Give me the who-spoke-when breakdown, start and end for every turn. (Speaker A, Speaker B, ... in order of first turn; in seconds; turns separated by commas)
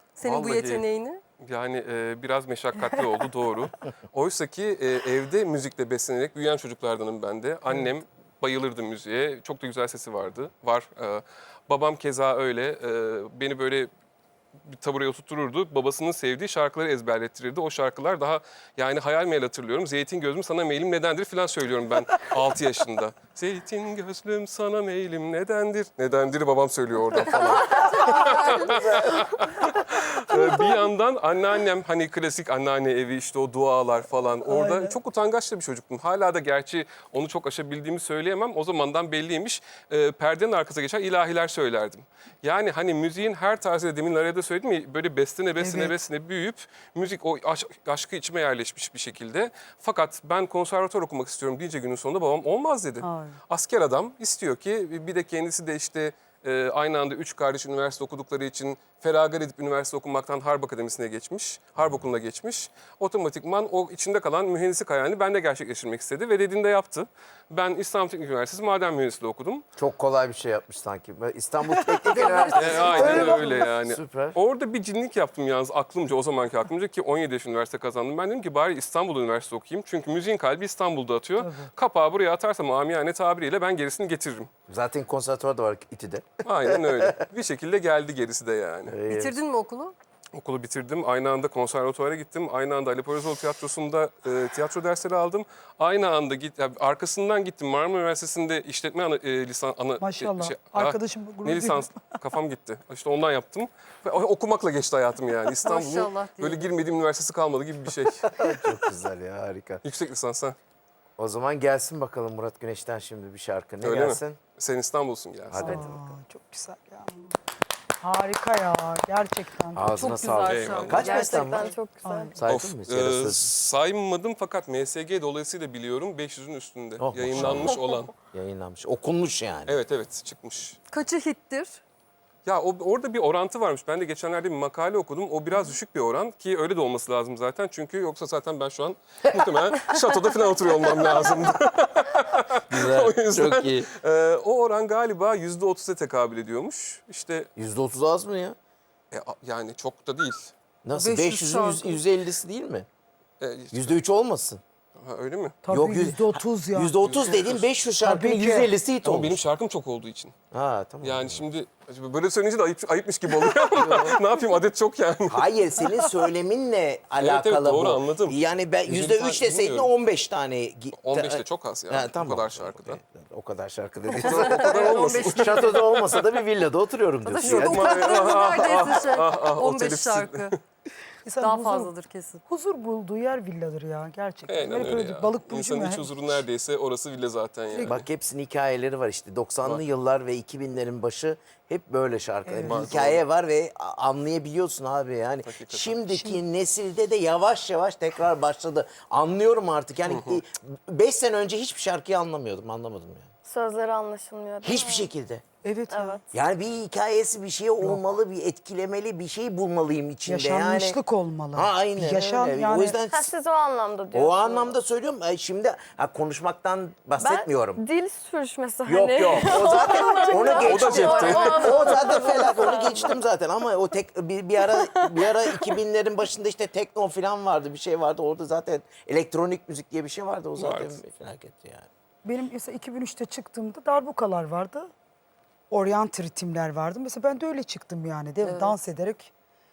Speaker A: 0.2-0.9, Speaker B: 0.2-1.2, Speaker A: 1.4-13.9, Speaker C: 2.8-3.2, Speaker A: 14.6-69.7, Speaker B: 27.7-28.8, Speaker C: 34.4-35.0, Speaker C: 45.6-46.0, Speaker C: 53.0-53.4, Speaker D: 69.8-74.4, Speaker C: 71.6-73.7, Speaker A: 72.5-84.5, Speaker C: 81.4-81.7, Speaker D: 84.7-87.2, Speaker A: 86.5-89.1, Speaker D: 88.9-89.4, Speaker B: 89.1-90.0, Speaker A: 90.3-108.7, Speaker C: 100.0-102.2, Speaker B: 105.6-106.7, Speaker D: 108.3-109.8, Speaker A: 109.8-110.6, Speaker D: 111.2-114.4, Speaker A: 113.8-115.9, Speaker D: 115.5-116.2, Speaker C: 115.6-117.3, Speaker C: 118.0-119.9, Speaker D: 119.7-121.7, Speaker B: 120.0-121.8, Speaker A: 120.4-121.1, Speaker E: 121.0-122.4, Speaker C: 122.0-122.4, Speaker D: 122.4-123.5, Speaker A: 122.5-128.1, Speaker D: 127.0-127.8, Speaker D: 128.3-129.8, Speaker A: 129.7-130.8, Speaker B: 130.9-131.8, Speaker A: 132.5-147.5, Speaker D: 142.7-143.9, Speaker D: 147.6-148.6, Speaker A: 149.1-150.5, Speaker D: 150.8-152.9, Speaker B: 150.9-152.0, Speaker A: 153.4-154.0, Speaker D: 153.7-154.6, Speaker A: 155.0-155.6, Speaker C: 155.6-156.9, Speaker D: 155.7-159.4, Speaker A: 157.0-157.7, Speaker C: 158.0-158.7, Speaker A: 159.0-160.3, Speaker D: 160.5-161.4, Speaker A: 161.0-166.0, Speaker D: 163.7-164.2, Speaker D: 165.3-178.1, Speaker A: 167.2-169.9, Speaker A: 170.9-173.0, Speaker B: 174.2-176.2, Speaker A: 174.2-176.2, Speaker B: 177.3-180.6, Speaker A: 177.4-180.6, Speaker C: 181.2-181.9, Speaker B: 181.4-182.4, Speaker C: 182.5-186.4, Speaker A: 184.5-188.1, Speaker C: 187.7-188.0, Speaker D: 187.8-203.3, Speaker C: 192.4-193.2, Speaker A: 192.6-193.2, Speaker A: 195.4-196.0, Speaker C: 196.1-196.4, Speaker A: 200.1-200.4, Speaker E: 203.4-205.1, Speaker D: 204.6-205.4, Speaker C: 205.6-206.3, Speaker E: 205.9-206.2, Speaker D: 206.3-211.0, Speaker C: 210.3-213.0, Speaker D: 211.6-213.3, Speaker E: 213.0-214.8, Speaker D: 214.1-217.8, Speaker E: 217.2-223.2, Speaker D: 218.9-231.9, Speaker A: 220.6-222.0, Speaker E: 224.6-225.7, Speaker A: 230.6-231.0, Speaker C: 232.2-234.9, Speaker C: 235.7-239.3, Speaker B: 238.4-238.8